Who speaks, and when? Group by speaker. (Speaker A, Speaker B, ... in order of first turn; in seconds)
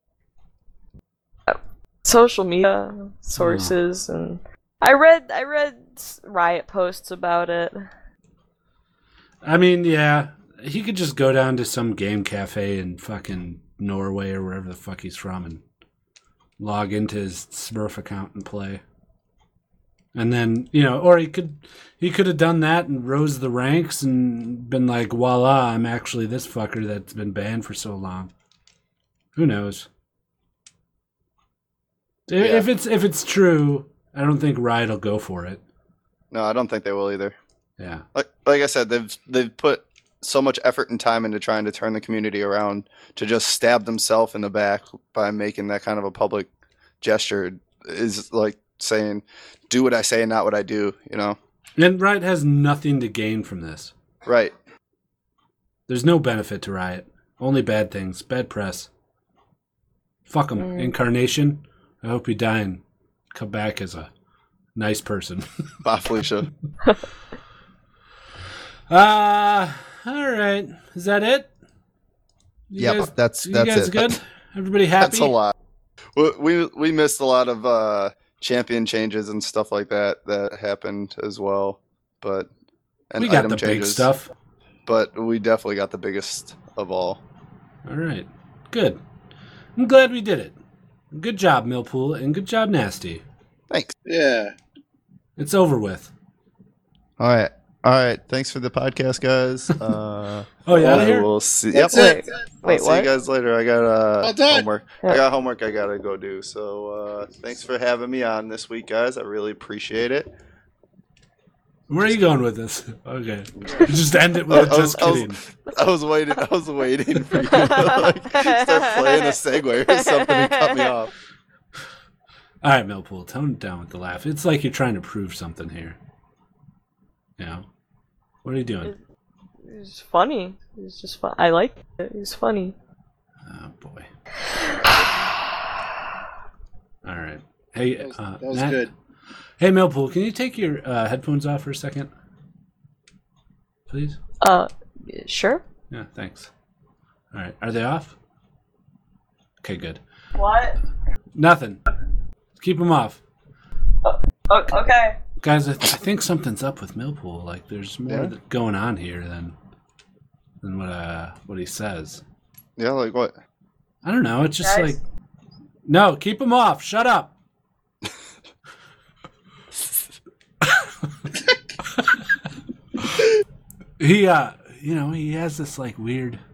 Speaker A: 1.5-7.9, 60.6-60.9, 101.9-103.1, 114.7-115.2, 117.4-121.0, 129.6-132.8, 134.5-134.9, 144.4-145.6, 150.3-150.8, 154.0-155.2, 164.6-165.0
Speaker B: 3.4-3.8, 9.4-15.6, 16.6-18.8, 20.1-28.3, 29.4-29.9, 32.3-35.6, 37.8-38.0, 51.8-53.9, 55.9-58.9, 60.3-64.1, 64.8-65.5, 68.9-71.5, 72.7-75.4, 83.2-84.3, 87.8-89.0, 89.8-90.6, 91.1-93.2, 95.4-96.1, 100.6-101.3, 111.9-115.4, 122.6-126.0, 127.4-127.6, 128.4-128.9, 133.4-134.1, 137.0-138.8, 139.6-142.1, 143.9-144.2, 145.9-146.5, 147.3-148.1, 149.6-150.0, 151.3-151.8, 152.6-153.2, 155.4-159.5, 160.6-162.2, 164.0-165.0, 165.9-167.3, 174.0-176.4
Speaker C: 32.4-32.6, 36.3-37.4, 38.1-46.5, 47.0-51.4, 54.2-54.5, 65.8-66.5, 72.8-74.2, 75.0-75.5, 76.1-82.5, 83.1-84.1, 84.9-87.2, 93.7-94.0, 97.2-102.1, 102.6-110.3, 114.5-121.1, 162.8-163.4
Speaker D: 94.1-94.5, 101.7-102.3, 104.2-104.7, 138.0-138.9